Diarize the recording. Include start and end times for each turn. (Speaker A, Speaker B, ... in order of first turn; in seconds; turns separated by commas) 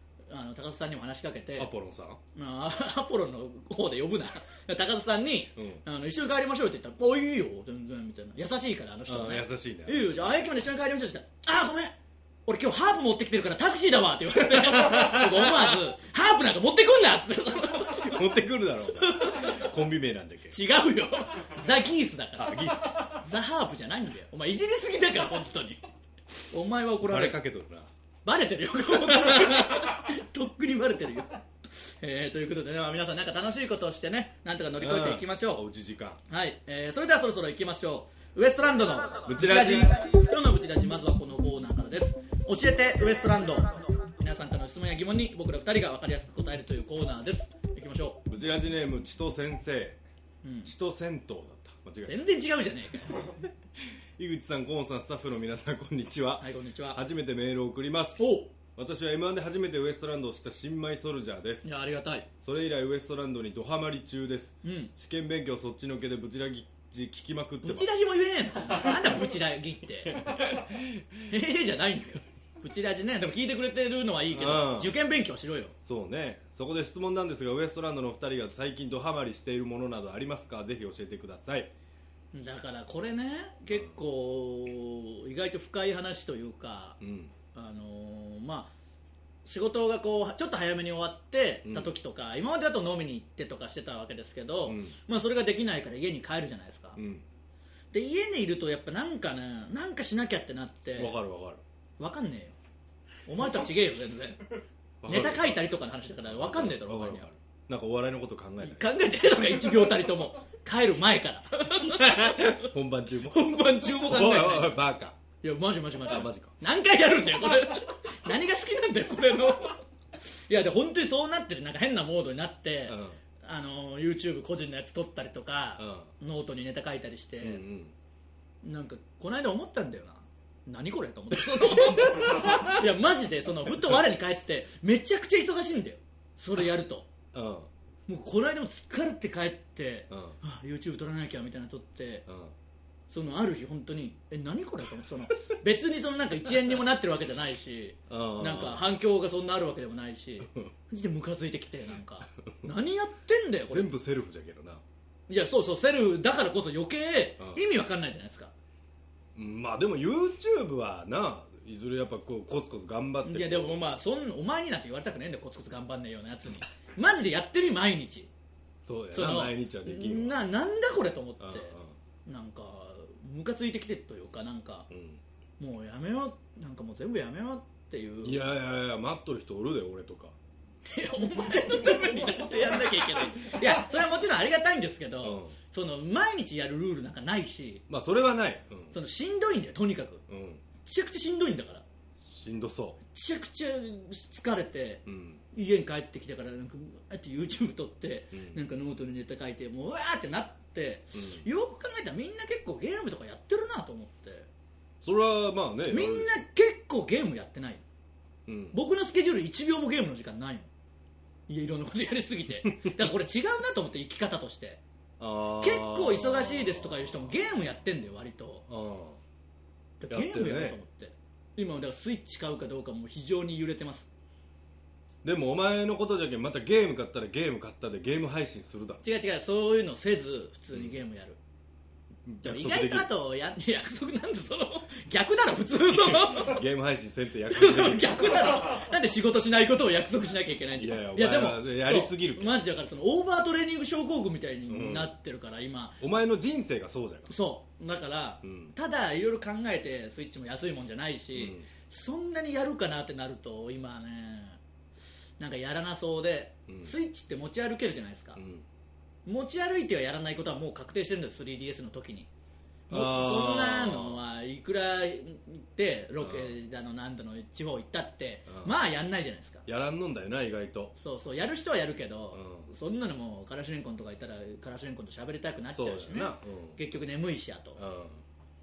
Speaker A: 0.3-1.7, Speaker B: 1.6-2.2, Speaker A: 2.3-18.4, Speaker B: 5.6-5.8, Speaker B: 9.1-10.5, Speaker B: 14.5-15.7, Speaker B: 17.8-20.6, Speaker A: 18.9-19.7, Speaker A: 20.5-25.8, Speaker B: 22.4-23.2, Speaker A: 26.5-27.4, Speaker B: 27.0-27.9, Speaker A: 28.2-35.6, Speaker B: 28.9-29.9, Speaker B: 34.8-36.2, Speaker A: 36.3-48.2, Speaker B: 39.2-40.0, Speaker B: 48.3-50.0, Speaker A: 50.4-50.7, Speaker B: 50.6-52.3, Speaker A: 52.0-53.3, Speaker B: 54.2-61.7, Speaker A: 56.4-57.0, Speaker A: 58.2-58.5, Speaker A: 61.6-62.3, Speaker B: 62.4-67.9, Speaker A: 64.6-64.9, Speaker A: 67.6-70.3, Speaker A: 71.3-75.7, Speaker B: 74.3-75.0, Speaker B: 75.8-81.7, Speaker A: 82.3-87.0, Speaker B: 87.0-87.3, Speaker A: 87.5-88.7, Speaker A: 89.5-97.0, Speaker B: 91.7-92.0, Speaker B: 94.7-95.0, Speaker B: 97.0-97.2, Speaker A: 97.9-101.2, Speaker B: 101.0-101.6, Speaker A: 102.0-102.5, Speaker A: 103.2-104.5, Speaker B: 105.0-105.7, Speaker A: 105.1-107.3, Speaker B: 106.3-108.9, Speaker A: 108.6-112.7, Speaker B: 111.8-115.2, Speaker A: 113.3-114.8, Speaker A: 115.4-127.6, Speaker B: 116.0-116.5, Speaker B: 122.9-123.2, Speaker B: 125.8-126.1, Speaker B: 127.4-128.0, Speaker A: 128.6-137.1, Speaker B: 131.5-132.8, Speaker B: 137.3-137.7, Speaker A: 138.1-142.2, Speaker B: 140.1-140.4, Speaker B: 142.3-142.5, Speaker A: 143.1-153.9, Speaker B: 148.1-148.9, Speaker B: 153.7-154.8, Speaker A: 155.3-158.5, Speaker B: 159.3-163.9, Speaker A: 163.2-168.3, Speaker B: 168.8-170.4, Speaker A: 169.1-171.8, Speaker B: 171.4-171.9, Speaker A: 172.2-174.9, Speaker B: 174.9-175.2, Speaker A: 175.6-178.4, Speaker B: 178.2-180.4, Speaker A: 180.9-187.8, Speaker B: 185.2-185.6, Speaker B: 187.9-188.9, Speaker A: 188.9-190.2, Speaker B: 190.3-190.6, Speaker A: 190.8-191.8, Speaker B: 192.2-193.0, Speaker A: 193.1-204.5, Speaker B: 195.1-195.4, Speaker B: 198.3-198.6, Speaker B: 201.2-201.4, Speaker B: 205.0-206.3, Speaker A: 205.9-207.8, Speaker B: 208.5-208.8, Speaker A: 208.7-210.7, Speaker A: 211.5-214.8, Speaker B: 215.2-217.3, Speaker A: 215.6-218.7, Speaker B: 218.7-219.2, Speaker A: 220.0-224.1, Speaker B: 220.1-220.8, Speaker B: 225.2-229.0, Speaker A: 229.0-231.4, Speaker B: 232.2-233.1, Speaker A: 232.4-236.6, Speaker B: 235.9-238.6, Speaker A: 237.5-246.0, Speaker B: 240.8-242.6, Speaker B: 244.7-245.1, Speaker B: 246.0-247.3, Speaker A: 247.3-254.6, Speaker B: 248.4-248.7, Speaker B: 251.3-251.7, Speaker A: 255.4-258.4, Speaker B: 256.7-256.9, Speaker B: 258.4-258.7, Speaker A: 259.2-262.3, Speaker B: 262.9-264.2, Speaker A: 262.9-269.7, Speaker B: 266.2-266.5, Speaker B: 268.5-268.8, Speaker B: 269.7-270.9, Speaker A: 270.9-277.8, Speaker B: 272.3-272.7, Speaker B: 275.7-276.8, Speaker B: 277.8-278.2